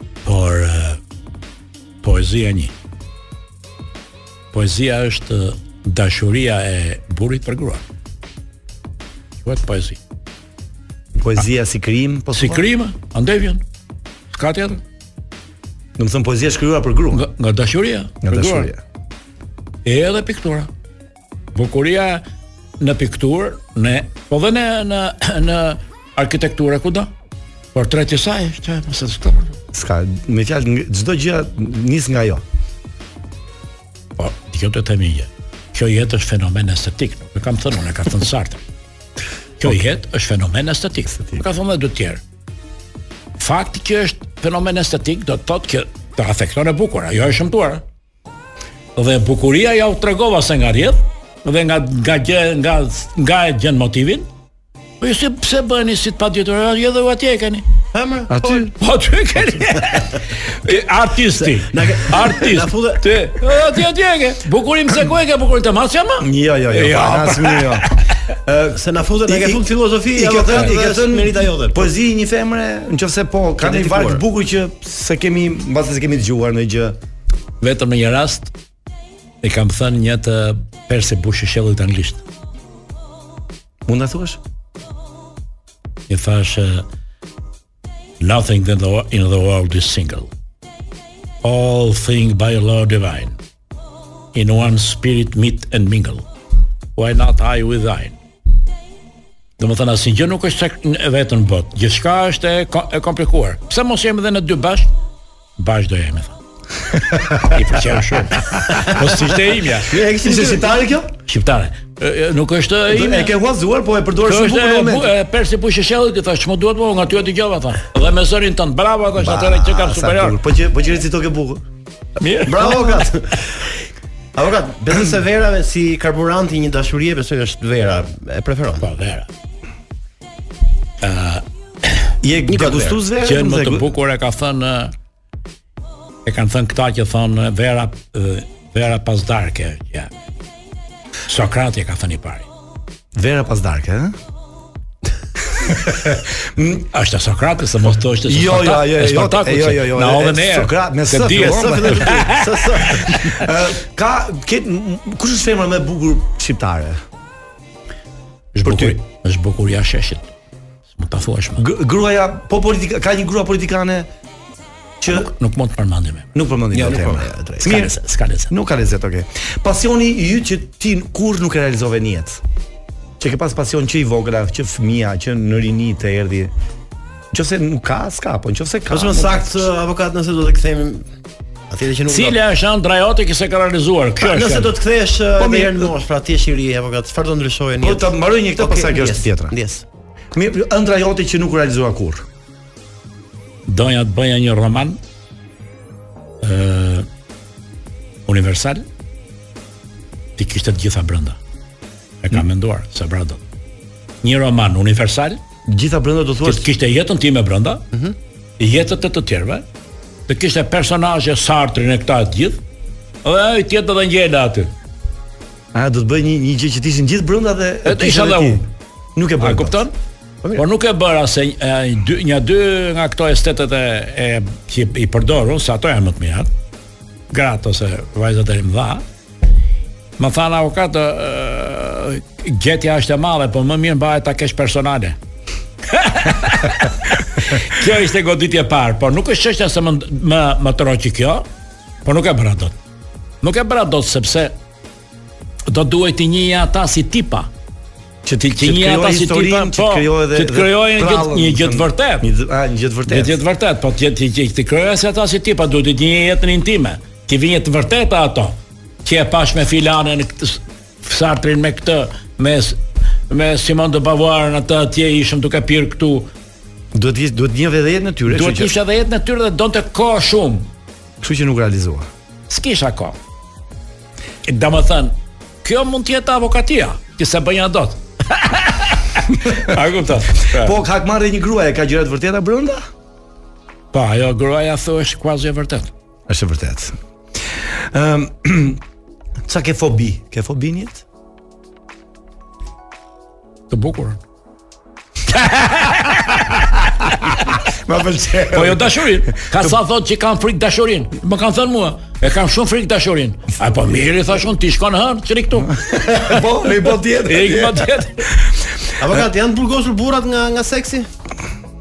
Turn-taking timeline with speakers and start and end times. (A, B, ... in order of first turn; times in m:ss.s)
0:00.2-0:01.0 A
0:02.0-0:02.7 A
0:04.5-0:07.8 A
0:09.4-0:10.0 A
0:11.2-0:12.7 B
0:12.3-0:13.6 A
0:14.3-0:14.8 A
0:16.0-0:17.3 B
0:17.1-0:18.7 A
0:18.2-0:18.8 B
0:19.8-0:20.7 A
0:21.6-0:22.2 A
0:22.8-0:27.1 A
0:27.7-0:29.6 A
0:29.7-0:32.4 B
0:34.2-0:38.6 A
0:39.6-0:42.2 A
0:43.4-0:47.8 A
0:49.0-0:54.3 A
0:55.0-0:57.6 A
0:57.9-0:58.7 C
0:58.3-0:58.7 B
0:58.8-1:08.1 A
1:01.5-1:03.0 C
1:06.2-1:07.9 B
1:08.4-1:17.0 B
1:08.8-1:11.9 C
1:13.6-1:14.2 C
1:17.6-1:18.5 A
1:19.4-1:22.2 A
1:23.9-1:24.4 B
1:26.1-1:26.9 A
1:28.2-1:30.3 A
1:31.4-1:33.4 A
1:34.3-1:36.3 A
1:37.0-1:38.2 A
1:39.6-1:44.9 A
1:45.6-1:46.4 A
1:47.4-1:49.9 A
1:49.9-1:50.8 C
1:50.1-1:51.1 B
1:51.3-1:53.3 A
1:52.9-1:55.1 B
1:54.2-2:00.4 A
1:59.2-2:01.6 B
2:02.2-2:02.9 A
2:02.4-2:03.7 C
2:02.6-2:03.0 B
2:04.4-2:08.9 C
2:08.8-2:09.3 A
2:11.0-2:12.1 A
2:12.2-2:13.9 B
2:12.5-2:13.3 C
2:13.2-2:14.9 A
2:16.2-2:20.1 A
2:21.3-2:22.5 A
2:23.2-2:24.2 B
2:25.5-2:26.9 B
2:26.9-2:33.2 A
2:28.2-2:32.2 B
2:31.1-2:33.5 C
2:33.3-2:37.0 B
2:38.5-2:40.3 A
2:38.6-2:39.0 B
2:40.9-2:41.6 A
2:41.6-2:44.1 B
2:45.0-2:45.3 B
2:45.1-2:46.3 A
2:46.4-2:52.4 B
2:46.7-2:47.9 C
2:47.7-2:48.5 A
2:53.2-2:56.5 B
2:57.3-2:59.6 B
2:58.9-3:01.1 C
3:01.7-3:02.4 C
3:02.1-3:04.8 A
3:04.2-3:09.8 C
3:05.4-3:05.9 B
3:07.8-3:09.5 B
3:10.3-3:12.3 B
3:13.7-3:15.0 A
3:16.4-3:17.1 A
3:18.3-3:18.9 A
3:20.4-3:21.4 A
3:22.2-3:23.4 A
3:24.2-3:25.4 A
3:25.7-3:26.7 B
3:26.4-3:27.8 A
3:28.6-3:29.7 A
3:30.3-3:32.6 A
3:33.2-3:34.7 A
3:35.7-3:39.8 B
3:37.8-3:38.7 A
3:39.4-3:40.0 A
3:40.5-3:46.5 A
3:47.3-3:49.0 A
3:50.2-3:55.2 A
3:55.9-4:01.5 A
4:02.0-4:02.8 A
4:03.4-4:04.6 A
4:05.7-4:07.5 A
4:08.2-4:13.4 B
4:08.4-4:12.3 A
4:13.1-4:26.3 A
4:26.9-4:28.7 B
4:28.3-4:30.7 A
4:31.2-4:32.1 B
4:32.5-4:33.2 A
4:34.4-4:40.8 A
4:40.5-4:42.8 B
4:43.9-4:45.9 A
4:46.3-4:47.0 B
4:47.6-4:48.8 B
4:49.4-4:51.0 B
4:53.7-4:54.2 A
4:55.3-4:56.5 A
4:57.6-4:59.8 B
4:58.5-5:06.2 A
5:05.9-5:08.0 B
5:07.2-5:08.3 A
5:09.0-5:11.1 C